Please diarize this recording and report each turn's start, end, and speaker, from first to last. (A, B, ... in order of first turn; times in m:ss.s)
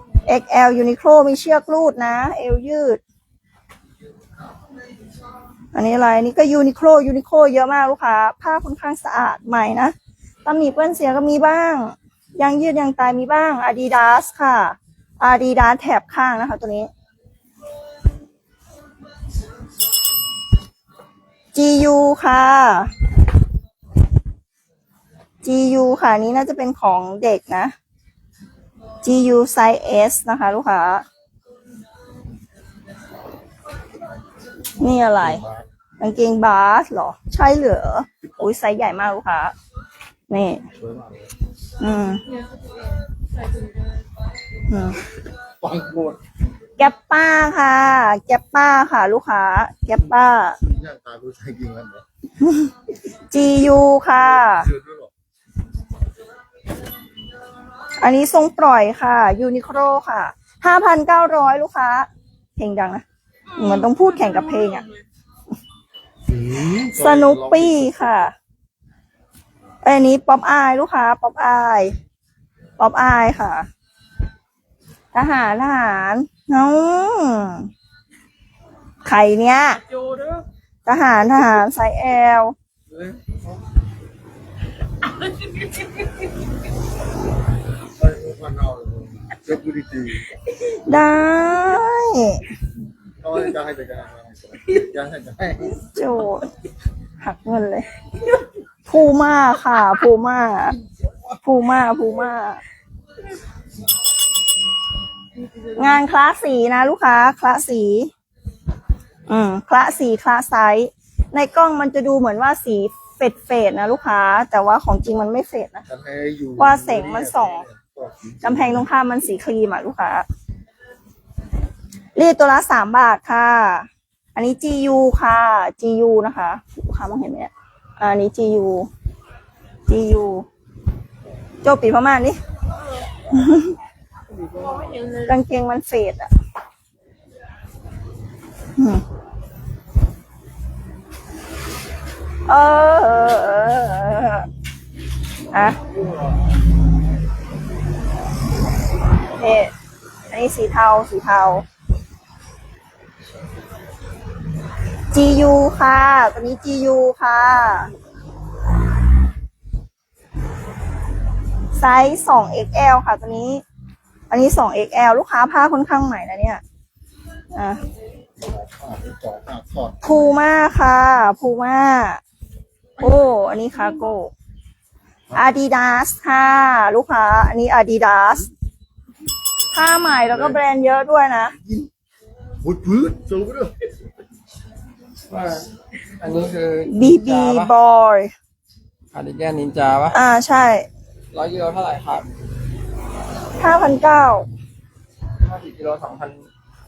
0:00.2-0:03.0 A
0:05.7-0:16.9 A
0:21.5-0:22.9 A
0:25.4-0:27.7 A
0:29.0-0:31.0 A
0:34.8-0:35.4 A
0:35.1-0:35.6 B
0:36.0-0:39.5 A
0:38.2-0:38.5 B
0:40.3-0:40.6 A
0:40.8-0:41.3 B
0:41.8-0:42.2 A
0:42.2-0:44.0 C
0:44.7-0:45.0 A
0:45.6-0:46.2 B
0:46.8-0:50.6 A
0:50.6-0:52.0 B
0:52.4-0:52.7 A
0:53.3-0:54.7 A
0:54.4-0:55.1 B
0:58.0-1:03.0 A
1:03.5-1:05.0 C
1:03.6-1:04.8 A
1:06.2-1:08.0 B
1:06.9-1:08.3 A
1:09.8-1:11.9 A
1:12.8-1:13.7 A
1:15.1-1:17.7 A
1:19.0-1:19.8 A
1:19.8-1:20.4 C
1:20.9-1:22.5 A
1:22.9-1:23.5 B
1:25.0-1:26.1 C
1:28.0-1:30.3 B
1:30.9-1:32.5 A
1:33.2-1:35.9 B
1:35.9-1:36.5 A
1:37.2-1:37.9 A
1:38.9-1:40.8 A
1:41.4-1:42.6 A
1:45.4-1:46.0 C
1:45.8-1:48.1 A
1:49.3-1:55.8 A
1:55.9-1:58.8 B
1:56.6-1:57.6 A
1:58.4-2:00.2 A
2:02.2-2:08.9 A
2:09.9-2:10.4 A
2:11.6-2:12.4 A
2:13.3-2:13.8 A
2:14.5-2:15.4 C
2:15.3-2:16.3 A
2:18.8-2:19.0 A
2:22.5-2:24.5 A
2:25.5-2:25.8 A
2:25.9-2:26.3 B
2:29.4-2:29.7 A
2:30.3-2:31.6 A
2:35.1-2:37.9 A
2:41.8-2:43.6 A
2:44.3-2:46.6 A
2:47.5-2:47.8 A
2:48.4-2:50.0 B
2:50.0-2:52.2 A
2:53.0-2:54.3 A
2:55.3-2:58.5 A
2:59.7-3:01.5 A
3:01.6-3:01.9 B
3:02.6-3:03.8 B
3:05.3-3:05.7 D
3:06.2-3:07.7 D
3:06.9-3:08.3 A
3:09.1-3:10.2 D
3:10.1-3:10.9 A
3:11.3-3:12.2 D
3:13.6-3:14.5 A
3:15.4-3:16.4 D